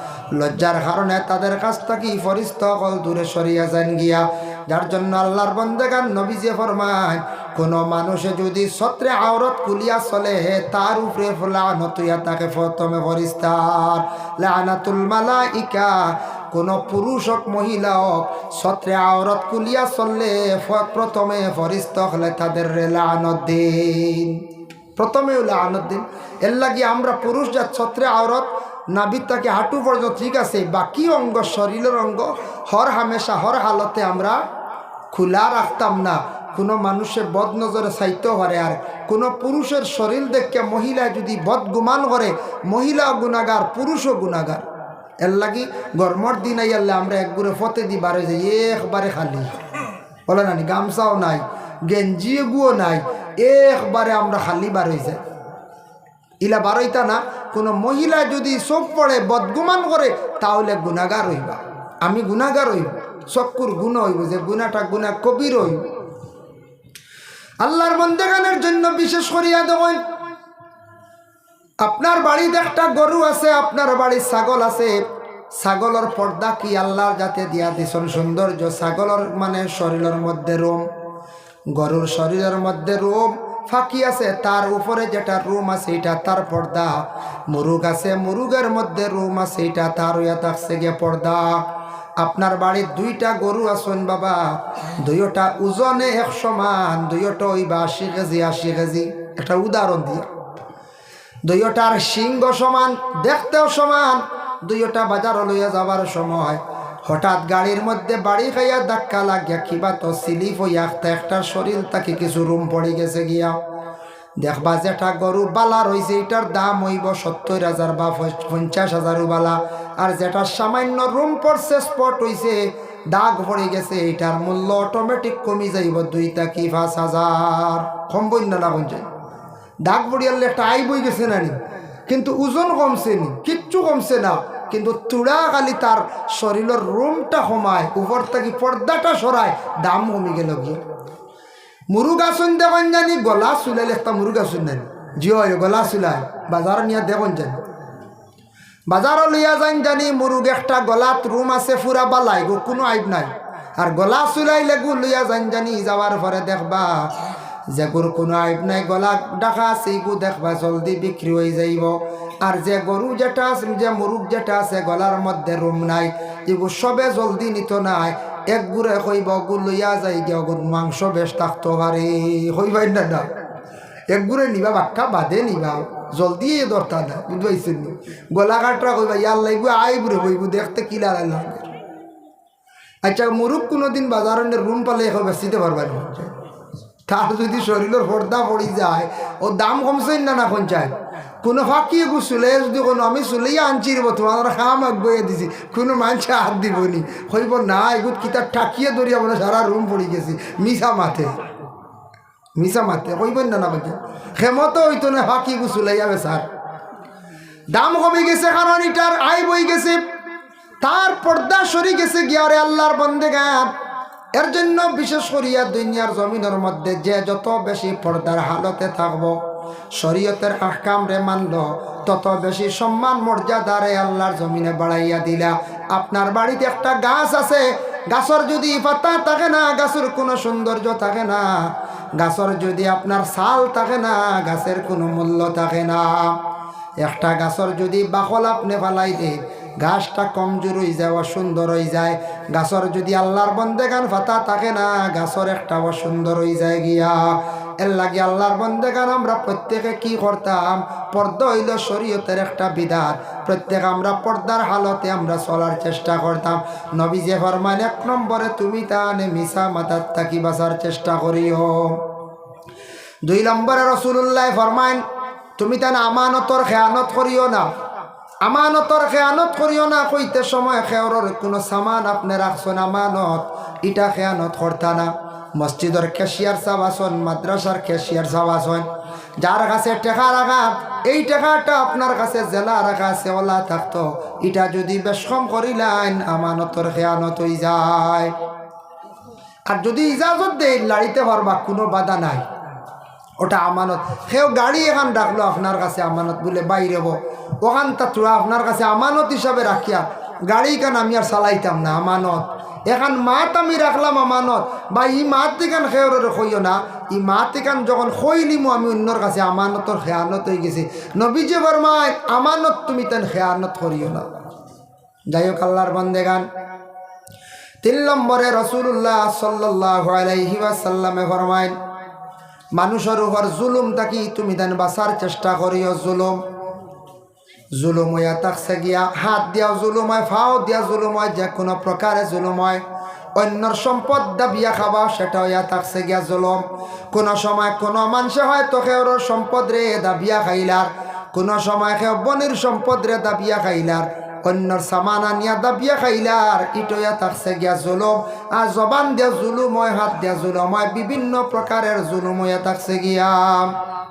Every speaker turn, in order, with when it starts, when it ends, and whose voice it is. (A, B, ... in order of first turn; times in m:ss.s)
0:00.3-0:24.4 A
0:25.0-0:34.4 A
0:35.1-0:44.6 A
0:45.2-0:49.6 A
0:50.3-0:55.2 A
0:56.4-1:05.9 A
1:07.6-1:10.0 A
1:11.8-1:15.0 A
1:15.5-1:20.8 A
1:21.7-1:31.6 A
1:32.2-1:40.3 A
1:41.4-1:53.6 A
1:54.4-2:09.0 A
2:09.8-2:11.6 A
2:12.1-2:20.8 A
2:21.9-2:27.6 A
2:28.9-2:37.1 A
2:37.7-2:53.3 A
2:54.1-3:01.6 A
3:03.0-3:06.3 A
3:07.1-3:21.4 A
3:22.6-3:26.4 A
3:27.7-3:30.0 A
3:30.8-3:33.7 A
3:34.4-3:39.4 A
3:40.0-3:56.3 A
3:57.0-4:22.0 A
4:23.2-4:25.0 A
4:25.6-4:27.7 A
4:28.4-4:38.9 A
4:39.4-4:48.3 A
4:49.7-4:52.4 A
4:53.4-5:14.4 A
5:15.3-5:16.5 A
5:17.8-5:21.7 A
5:22.8-5:26.4 A
5:27.7-5:32.8 A
5:33.4-5:53.7 A